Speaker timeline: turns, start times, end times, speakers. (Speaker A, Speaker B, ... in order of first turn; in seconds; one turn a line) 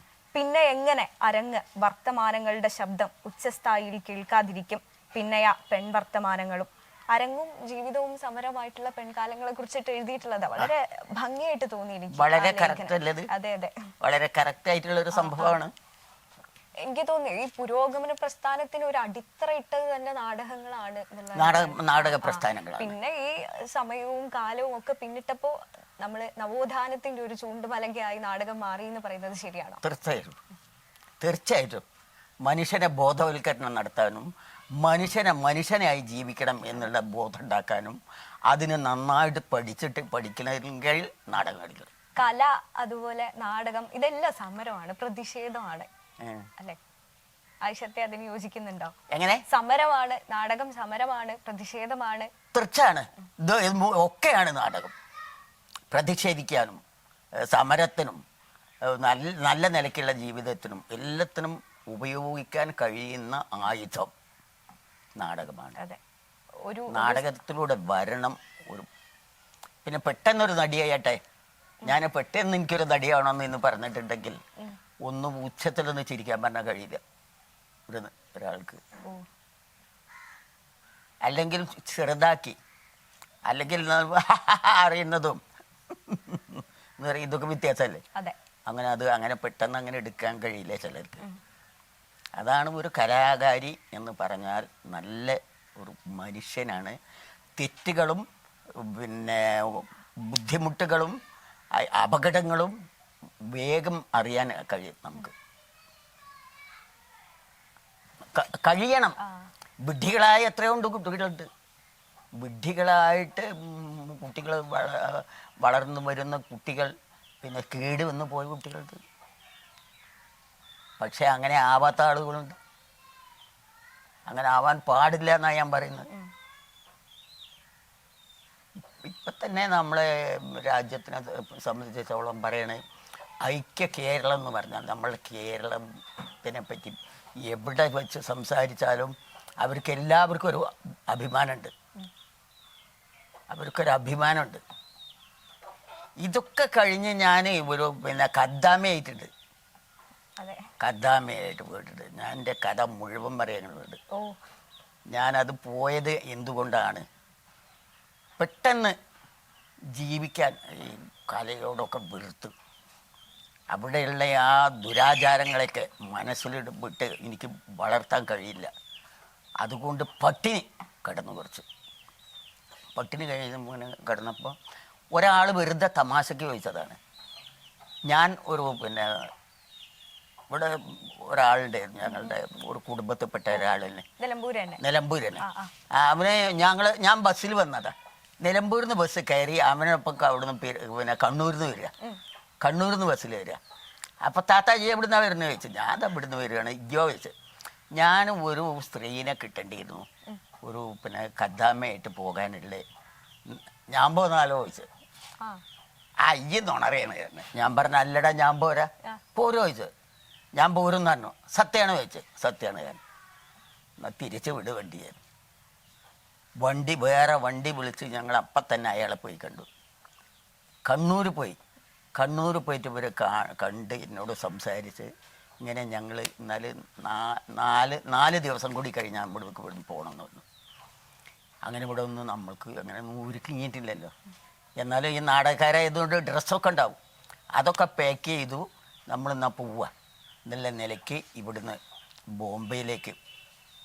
Speaker A: 0.3-13.7
Speaker B: 12.1-13.3
Speaker B: 14.0-15.7
Speaker A: 15.1-15.6
Speaker A: 16.9-29.8
Speaker B: 21.4-22.9
Speaker B: 29.8-30.4
Speaker B: 31.2-31.9
Speaker B: 32.5-41.9
Speaker A: 42.2-45.9
Speaker B: 46.2-46.5
Speaker A: 47.6-49.0
Speaker B: 49.1-49.4
Speaker A: 49.5-52.3
Speaker B: 52.5-54.9
Speaker B: 55.9-56.8
Speaker B: 57.4-58.2
Speaker B: 58.9-64.1
Speaker B: 65.2-65.8
Speaker A: 66.7-67.2
Speaker B: 66.9-68.9
Speaker B: 69.8-71.2
Speaker B: 71.8-74.4
Speaker B: 75.1-77.0
Speaker B: 77.9-78.8
Speaker B: 81.2-82.6
Speaker B: 83.5-88.0
Speaker B: 88.7-91.2
Speaker B: 92.4-97.0
Speaker B: 97.6-98.2
Speaker B: 98.8-101.2
Speaker B: 101.8-102.8
Speaker B: 103.5-105.3
Speaker B: 108.3-109.2
Speaker B: 109.8-111.5
Speaker B: 112.4-119.0
Speaker B: 121.0-122.6
Speaker B: 124.3-126.1
Speaker B: 129.0-132.8
Speaker B: 133.4-135.9
Speaker B: 136.4-141.7
Speaker B: 143.5-144.6
Speaker B: 146.2-149.3
Speaker A: 150.4-150.7
Speaker B: 150.8-154.0
Speaker B: 155.1-157.1
Speaker B: 158.4-158.9
Speaker B: 159.9-162.5
Speaker B: 163.7-168.7
Speaker B: 169.6-171.7
Speaker B: 172.9-174.6
Speaker B: 175.1-177.0
Speaker B: 178.1-179.3
Speaker B: 180.5-184.1
Speaker A: 182.1-182.3
Speaker A: 184.2-184.8
Speaker B: 184.8-191.9
Speaker A: 185.4-185.7
Speaker B: 192.6-193.6
Speaker B: 194.2-197.3
Speaker B: 197.9-200.1
Speaker B: 200.6-202.8
Speaker B: 203.5-204.9
Speaker B: 206.2-209.9
Speaker B: 210.6-213.0
Speaker B: 214.0-215.2
Speaker B: 216.6-219.7
Speaker B: 220.9-221.6
Speaker B: 222.2-225.1
Speaker B: 225.6-230.5
Speaker B: 231.7-234.1
Speaker B: 234.8-237.0
Speaker B: 237.5-239.9
Speaker B: 240.5-241.8
Speaker B: 242.3-243.2